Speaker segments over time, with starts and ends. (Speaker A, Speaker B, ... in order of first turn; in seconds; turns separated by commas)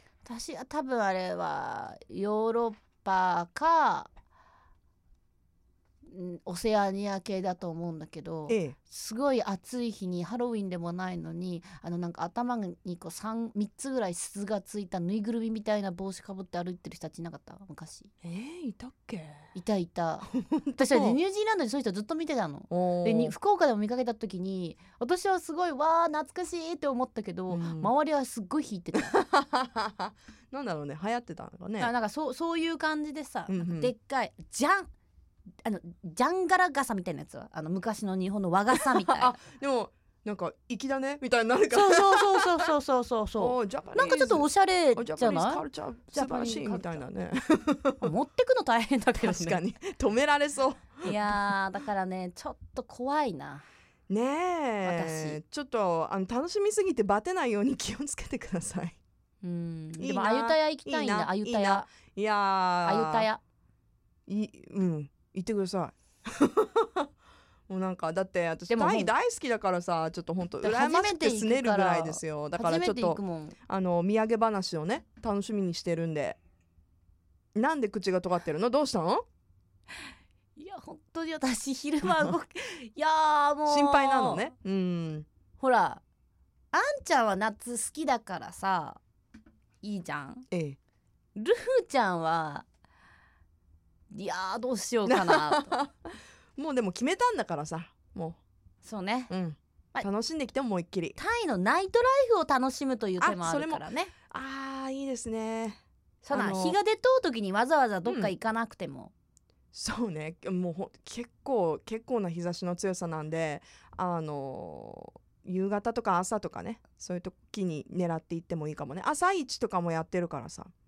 Speaker A: 0.2-4.1, Speaker A: 6.1-18.1, Speaker B: 8.5-8.8, Speaker B: 18.2-19.5, Speaker A: 19.5-29.2, Speaker B: 20.3-21.2, Speaker B: 22.7-23.3, Speaker B: 27.5-27.9, Speaker B: 29.0-31.9, Speaker A: 31.8-34.9, Speaker B: 33.5-33.9, Speaker A: 35.6-39.3, Speaker B: 38.8-42.7, Speaker A: 41.7-47.0, Speaker B: 43.4-48.1, Speaker A: 48.0-49.6, Speaker B: 49.2-51.4, Speaker A: 51.0-53.6, Speaker B: 54.1-59.0, Speaker A: 54.8-55.4, Speaker A: 59.4-61.9, Speaker B: 60.0-63.3, Speaker A: 62.9-63.4, Speaker B: 64.3-67.1, Speaker B: 67.7-76.4, Speaker A: 68.7-69.1, Speaker A: 70.6-73.5, Speaker B: 77.5-79.2, Speaker A: 80.6-84.5, Speaker B: 82.0-82.3, Speaker B: 83.7-85.3, Speaker A: 85.6-86.0, Speaker A: 86.7-89.0, Speaker A: 89.8-90.5, Speaker B: 90.5-90.8, Speaker A: 91.3-92.6, Speaker A: 94.1-95.8, Speaker B: 95.1-98.4, Speaker A: 98.8-99.3, Speaker B: 99.3-101.2, Speaker A: 101.2-104.1, Speaker B: 103.2-105.8, Speaker A: 106.2-109.1, Speaker B: 106.3-106.8, Speaker B: 108.0-108.3, Speaker B: 109.7-120.7